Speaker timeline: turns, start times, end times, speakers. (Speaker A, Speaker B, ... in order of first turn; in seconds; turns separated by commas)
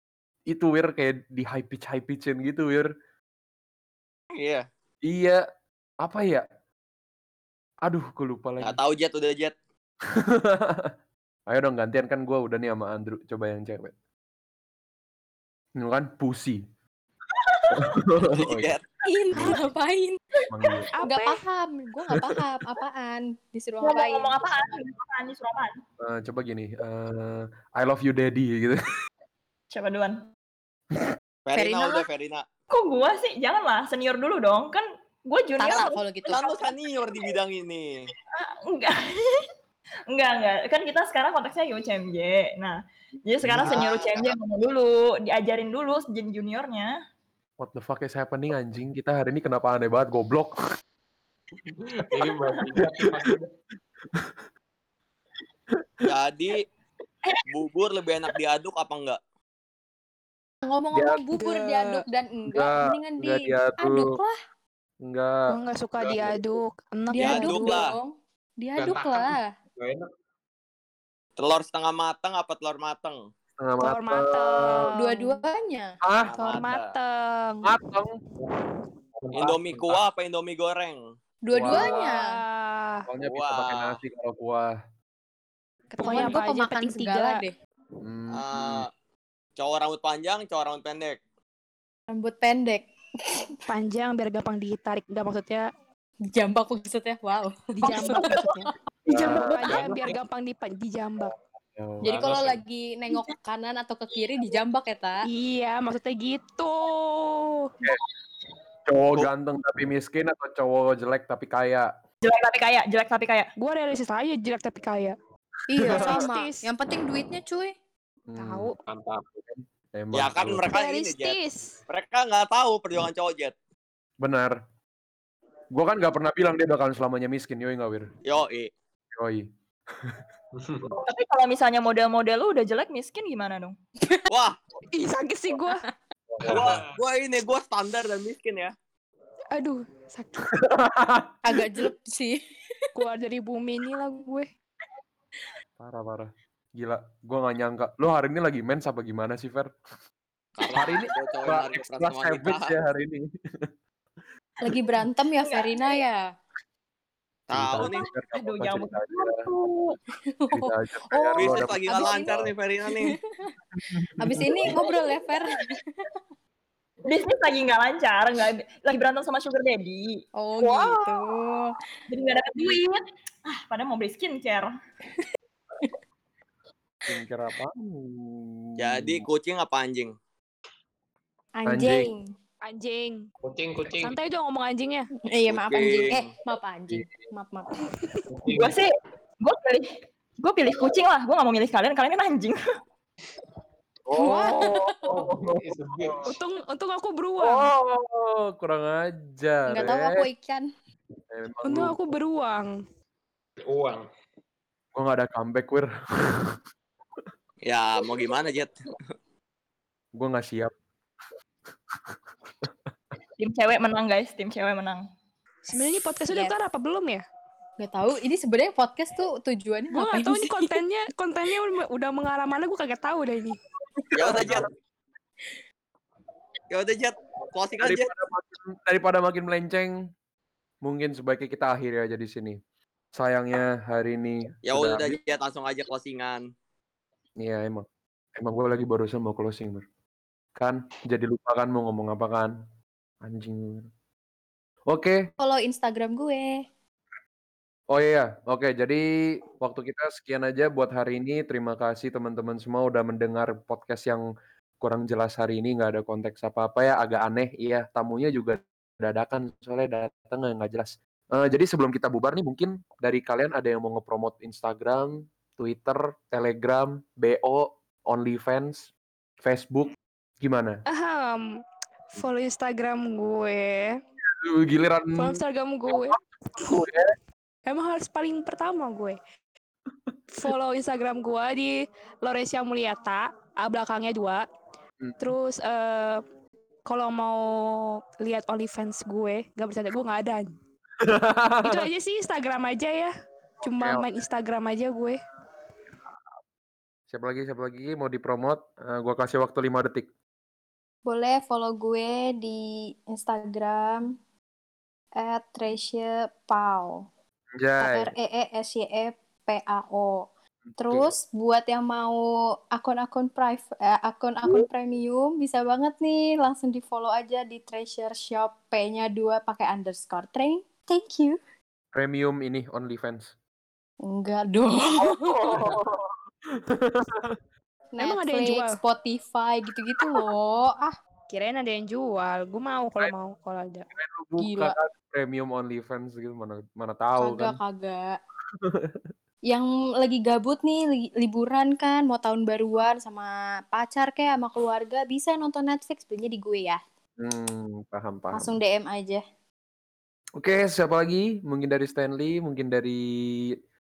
Speaker A: 0.5-2.9, Speaker B: 4.3-4.7, Speaker A: 5.0-5.4, Speaker A: 6.0-6.5, Speaker A: 7.8-8.8, Speaker B: 8.6-9.5, Speaker A: 10.1-10.9, Speaker A: 11.5-13.9, Speaker A: 15.8-16.6, Speaker C: 17.4-17.9, Speaker A: 17.7-18.7, Speaker B: 18.2-18.8, Speaker D: 19.1-20.2, Speaker A: 19.4-19.6, Speaker A: 20.5-20.9, Speaker E: 21.0-21.4, Speaker D: 21.0-24.4, Speaker A: 22.1-22.4, Speaker C: 23.8-25.8, Speaker A: 26.0-28.8, Speaker C: 29.7-30.2, Speaker B: 31.5-32.4, Speaker D: 31.5-32.1, Speaker C: 32.7-37.3, Speaker D: 35.6-36.4, Speaker B: 36.3-38.1, Speaker C: 38.3-39.5, Speaker C: 40.1-47.0, Speaker A: 43.4-43.8, Speaker B: 43.6-44.3, Speaker A: 47.6-50.5, Speaker F: 51.6-53.5, Speaker A: 52.8-53.4, Speaker A: 54.1-54.4, Speaker B: 56.1-56.6, Speaker B: 57.5-59.2, Speaker D: 60.6-64.4, Speaker A: 60.9-61.2, Speaker E: 61.4-62.0, Speaker A: 62.5-64.2, Speaker A: 65.0-65.5, Speaker E: 65.5-67.8, Speaker F: 66.0-66.4, Speaker D: 67.1-69.5, Speaker B: 67.2-67.9, Speaker F: 68.8-70.1, Speaker B: 71.4-73.2, Speaker A: 73.6-74.8, Speaker E: 73.8-75.4, Speaker D: 75.0-76.0, Speaker A: 76.0-76.3, Speaker B: 76.2-76.9, Speaker E: 76.3-77.7, Speaker A: 77.7-78.1, Speaker A: 79.2-80.0, Speaker F: 79.3-79.6, Speaker B: 79.4-81.0, Speaker D: 81.4-82.4, Speaker A: 81.5-82.0, Speaker E: 81.7-83.0, Speaker A: 83.1-84.7, Speaker B: 83.2-84.0, Speaker E: 86.0-87.4, Speaker D: 86.0-87.5, Speaker A: 88.0-88.9, Speaker B: 88.3-88.9, Speaker B: 89.6-91.2, Speaker D: 92.1-93.5, Speaker E: 93.7-95.7, Speaker D: 96.3-98.8, Speaker E: 97.8-101.3, Speaker C: 97.9-98.6, Speaker A: 99.1-99.6, Speaker F: 99.7-100.2, Speaker A: 101.8-102.1, Speaker F: 102.0-102.6, Speaker D: 102.0-105.2, Speaker E: 105.2-107.5, Speaker A: 108.9-111.9, Speaker C: 112.2-113.5, Speaker E: 113.6-115.2, Speaker D: 115.7-117.8, Speaker A: 115.8-116.2, Speaker E: 115.8-116.7, Speaker A: 118.3-118.7, Speaker E: 118.4-118.7, Speaker F: 118.9-119.3, Speaker A: 119.4-120.6, Speaker B: 120.1-121.4, Speaker E: 120.7-121.8, Speaker B: 121.9-123.5, Speaker A: 124.2-124.6, Speaker A: 125.7-128.1, Speaker B: 128.3-128.7, Speaker A: 129.1-130.2, Speaker F: 130.6-130.9, Speaker C: 131.1-133.8, Speaker B: 134.3-134.6, Speaker E: 134.9-135.8, Speaker A: 136.3-136.8, Speaker F: 136.4-137.0, Speaker B: 136.5-138.7, Speaker E: 139.6-140.5, Speaker A: 140.6-141.3, Speaker D: 141.4-142.4, Speaker E: 142.9-144.5, Speaker A: 145.8-149.7, Speaker B: 150.6-152.7, Speaker A: 150.8-153.7, Speaker D: 154.6-156.3, Speaker C: 155.4-156.0, Speaker B: 157.5-158.1, Speaker A: 157.5-159.4, Speaker C: 157.8-160.0, Speaker D: 160.2-163.6, Speaker A: 160.5-162.5, Speaker B: 161.4-163.2, Speaker A: 163.8-164.8, Speaker D: 164.2-166.1, Speaker C: 167.1-170.2, Speaker D: 170.3-171.8, Speaker C: 172.1-174.8, Speaker A: 177.1-179.3, Speaker B: 178.8-180.1, Speaker D: 181.6-182.3, Speaker A: 181.7-182.1, Speaker E: 182.7-183.2, Speaker F: 183.4-184.2, Speaker E: 184.0-185.1, Speaker D: 185.3-187.7, Speaker B: 185.5-186.3, Speaker A: 186.9-187.3, Speaker F: 188.3-188.8, Speaker C: 188.5-188.9, Speaker C: 189.4-192.6, Speaker A: 194.1-196.3, Speaker D: 194.2-195.1, Speaker F: 195.1-196.3, Speaker E: 196.2-197.7, Speaker A: 197.4-200.3, Speaker D: 199.7-200.7, Speaker A: 201.3-202.0, Speaker E: 201.6-202.7, Speaker F: 203.6-204.1, Speaker A: 204.9-206.6, Speaker B: 207.6-208.8, Speaker A: 210.2-210.7, Speaker C: 213.4-215.1, Speaker E: 215.7-217.2, Speaker D: 216.3-216.5, Speaker D: 217.8-220.8, Speaker E: 219.9-223.6, Speaker B: 224.1-224.7, Speaker A: 224.2-224.7, Speaker B: 226.7-228.1, Speaker A: 227.8-229.9, Speaker A: 230.8-232.6, Speaker A: 233.2-235.2, Speaker B: 234.7-236.5, Speaker A: 237.4-237.9, Speaker A: 238.4-239.8, Speaker A: 240.6-242.5, Speaker A: 243.2-243.9, Speaker A: 244.9-245.2, Speaker D: 245.4-246.7, Speaker A: 247.9-254.2, Speaker A: 254.8-268.9, Speaker A: 269.4-270.8, Speaker E: 270.9-271.4, Speaker E: 272.1-274.0, Speaker A: 274.2-277.1, Speaker E: 275.2-276.8, Speaker E: 277.7-279.2, Speaker E: 280.3-284.4, Speaker A: 285.0-285.4, Speaker E: 285.2-286.2, Speaker E: 286.9-287.4, Speaker E: 288.2-290.5, Speaker A: 291.0-291.9, Speaker E: 291.6-293.1, Speaker E: 293.6-295.2, Speaker A: 293.6-294.0, Speaker A: 297.1-300.1, Speaker D: 301.1-304.2, Speaker D: 305.2-307.1, Speaker A: 307.6-308.1, Speaker D: 307.8-310.3, Speaker A: 310.7-311.1, Speaker D: 310.8-312.2, Speaker D: 312.7-321.4, Speaker A: 321.9-323.3, Speaker D: 324.0-325.7, Speaker A: 325.0-327.4, Speaker D: 327.9-330.9, Speaker E: 328.0-328.8, Speaker E: 331.3-333.9, Speaker A: 333.9-337.6, Speaker D: 334.4-334.8, Speaker D: 337.2-338.2, Speaker A: 338.6-339.0, Speaker D: 339.5-346.8, Speaker A: 347.2-348.5, Speaker D: 348.3-349.2, Speaker A: 350.4-353.5